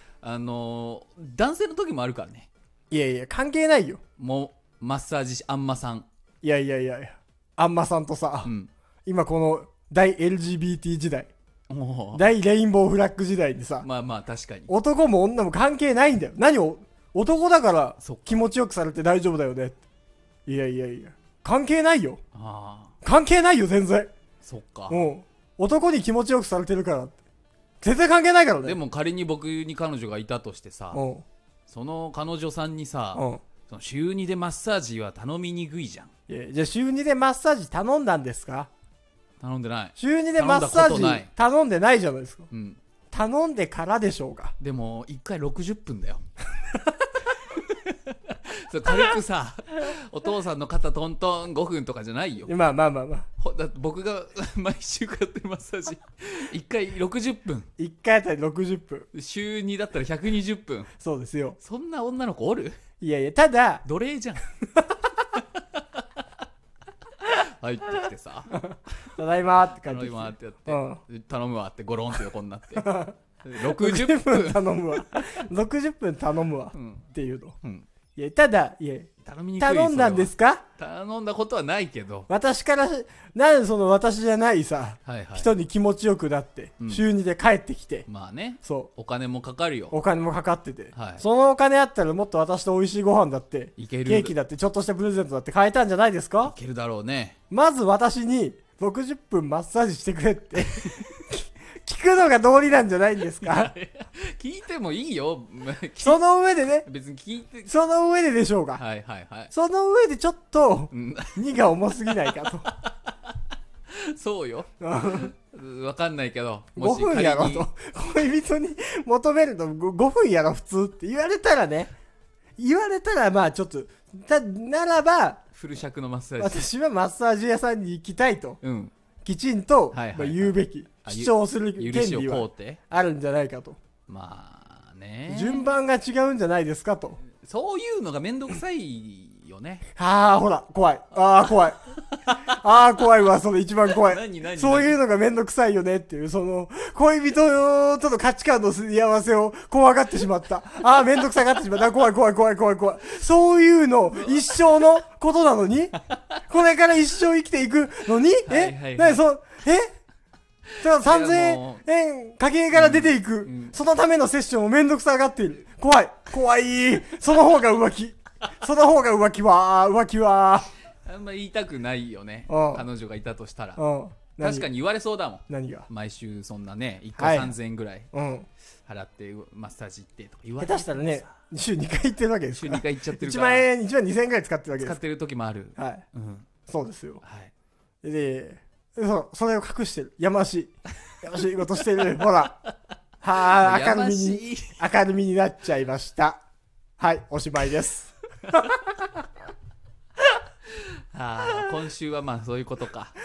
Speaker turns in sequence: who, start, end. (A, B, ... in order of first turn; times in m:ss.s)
0:00.2-0:02.5 A
0:02.9-0:04.0 B
0:04.2-0:06.1 A
0:06.4-0:08.5 B
0:08.4-0:08.7 A
0:09.0-0:11.3 B
0:11.7-0:12.2 A
0:12.1-0:13.9 B
0:13.8-0:14.7 A
0:14.7-0:19.8 B
0:18.0-0:18.4 A
0:20.4-0:22.2 B
0:22.3-0:22.9 A
0:23.0-0:24.1 B
0:24.4-0:25.0 A
0:24.9-0:27.2 B
0:27.8-0:28.8 B
0:28.6-0:31.0 A
0:30.9-0:31.2 B
0:31.7-0:36.1 A
0:33.1-0:33.4 B
0:36.3-0:38.7 B
0:39.4-0:41.3 A
0:40.0-0:42.5 B
0:42.5-0:42.8 A
0:43.1-0:44.5 B
0:44.6-0:46.2 A
0:47.5-0:52.5 A
0:52.5-0:53.3 B
0:53.4-0:57.7 A
0:57.8-0:59.1 B
0:59.1-1:00.9 A
1:01.0-1:01.6 B
1:01.6-1:02.8 A
1:03.0-1:03.8 B
1:03.8-1:04.5 A
1:04.8-1:05.0 B
1:07.2-1:08.6 A
1:08.5-1:11.0 B
1:09.8-1:12.9 A
1:12.8-1:17.6 B
1:13.4-1:15.3 A
1:16.7-1:17.0 A
1:18.2-1:20.6 B
1:19.2-1:22.3 A
1:22.3-1:28.1 B
1:25.0-1:25.5 A
1:28.1-1:30.0 A
1:28.6-1:28.9 B
1:29.9-1:36.5 B
1:30.9-1:31.2 A
1:33.8-1:34.3 A
1:36.4-1:37.4 A
1:37.5-1:43.7 B
1:43.3-1:46.2 A
1:46.0-1:46.9 B
1:46.8-1:47.7 A
1:47.7-1:48.8 B
1:48.8-1:49.5 A
1:49.5-1:52.7 B
1:50.9-1:53.3 A
1:53.9-1:57.7 A
1:54.8-1:55.3 B
1:56.8-2:01.9 B
2:02.6-2:05.4 B
2:05.5-2:06.7 A
2:06.4-2:08.6 B
2:08.6-2:08.9 A
2:09.2-2:13.8 B
2:09.9-2:12.8 A
2:14.1-2:15.7 A
2:15.3-2:17.2 B
2:17.3-2:19.8 A
2:20.0-2:21.8 B
2:22.4-2:39.9 B
2:23.9-2:25.0 A
2:34.3-2:34.8 A
2:38.5-2:39.2 A
2:40.7-2:41.8 A
2:40.8-2:50.7 B
2:42.7-2:43.8 A
2:51.0-2:53.8 A
2:52.5-2:52.8 B
2:53.8-2:54.7 B
2:54.4-2:58.1 A
2:55.5-2:55.9 B
2:57.2-2:57.5 B
2:58.1-2:58.5 B
2:58.8-3:01.3 A
3:00.6-3:05.0 B
3:02.5-3:03.7 A
3:04.8-3:06.5 A
3:05.8-3:06.0 B
3:06.7-3:07.2 B
3:07.2-3:07.5 A
3:08.0-3:12.6 B
3:13.2-3:16.4 B
3:13.5-3:14.8 A
3:17.0-3:18.7 B
3:21.1-3:23.1 A